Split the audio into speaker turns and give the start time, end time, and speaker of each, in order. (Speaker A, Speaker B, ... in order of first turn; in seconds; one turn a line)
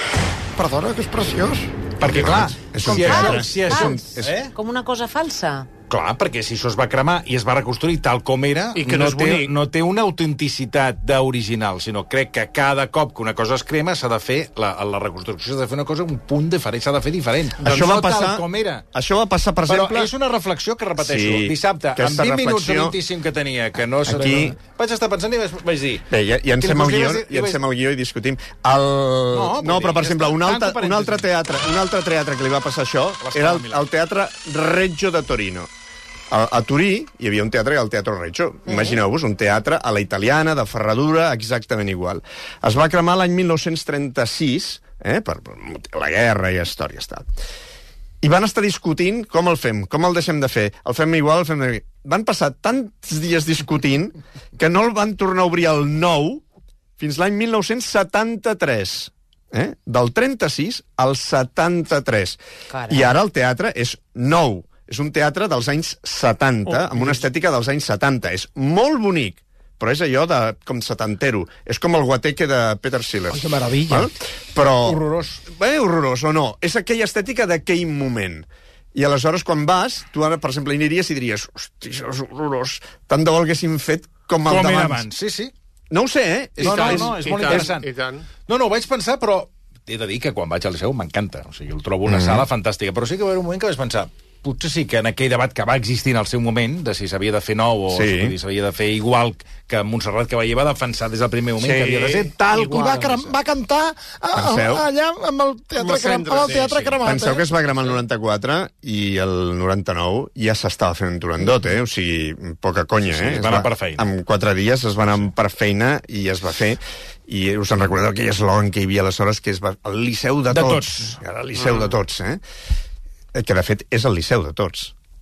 Speaker A: 0.6-1.7
Speaker B: 2.0-4.5
Speaker C: 2.0-4.4
Speaker D: 2.8-5.7
Speaker B: 5.9-18.8
Speaker E: 8.8-9.5
Speaker C: 17.6-20.1
Speaker B: 19.7-26.1
Speaker C: 21.0-23.0
Speaker C: 24.1-24.6
Speaker C: 26.1-35.7
Speaker B: 26.6-27.6
Speaker B: 29.3-31.3
Speaker B: 33.2-33.9
Speaker C: 36.3-47.3
Speaker C: 48.2-56.4
Speaker C: 57.0-85.1
Speaker D: 62.7-63.1
Speaker F: 73.4-74.0
Speaker B: 74.8-75.4
Speaker B: 84.5-85.5
Speaker C: 85.9-87.6
Speaker B: 86.6-87.9
Speaker E: 86.6-88.3
Speaker B: 88.5-103.3
Speaker C: 92.1-92.5
Speaker C: 97.9-98.4
Speaker C: 101.7-101.9
Speaker F: 102.5-107.4
Speaker C: 104.3-104.9
Speaker E: 105.8-106.9
Speaker A: 105.9-106.7
Speaker B: 106.4-107.0
Speaker C: 107.0-122.4
Speaker B: 113.1-114.1
Speaker B: 120.5-121.2
Speaker E: 121.6-121.9
Speaker C: 123.3-124.9